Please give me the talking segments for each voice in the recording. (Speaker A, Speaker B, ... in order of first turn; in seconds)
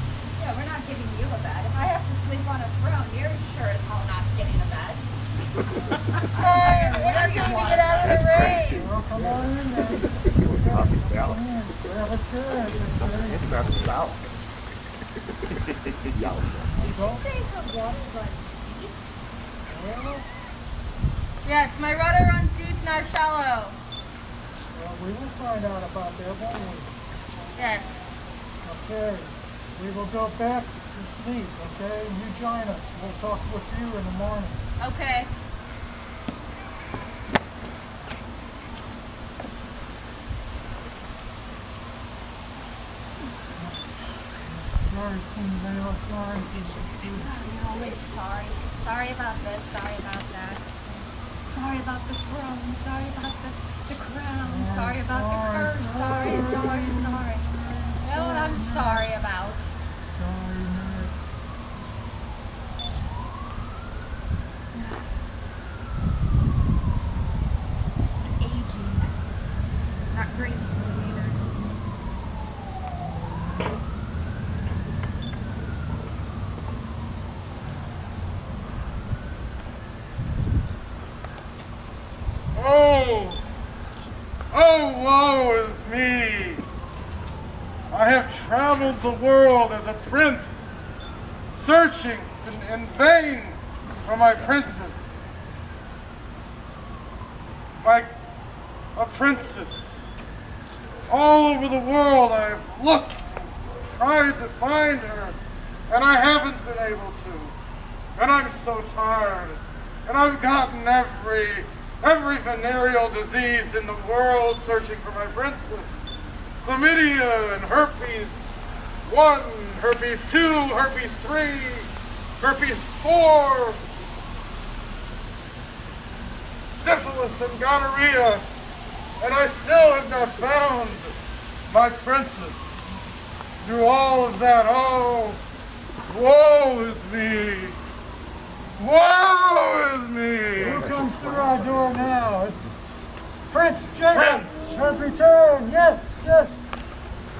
Speaker A: 0.3-5.0, 6.3-8.7, 16.8-19.0, 47.0-50.7, 51.5-57.5, 58.0-59.7, 64.7-65.0, 68.3-69.2, 70.1-71.4
Speaker B: 6.4-8.9, 21.4-23.8, 27.6-28.1, 34.8-35.3, 56.2-56.9
Speaker C: 8.0-11.4, 12.8-14.2, 15.9-16.8, 140.7-141.9
Speaker D: 8.8-13.5, 16.9-17.2, 19.7-20.3, 24.7-26.9, 28.6-34.6, 43.6-43.8, 44.4-47.3, 54.4-59.1, 60.0-61.2, 140.6-142.7, 143.5-146.7
Speaker E: 82.5-83.4, 84.5-86.6, 87.9-90.7, 91.5-95.2, 97.8-98.1, 99.0-100.0, 101.1-105.4, 105.9-107.5, 108.2-118.5, 119.1-123.8, 126.8-128.4, 129.2-131.1, 131.7-132.8, 133.6-135.4, 136.1-137.8, 138.8-140.9, 144.1-144.7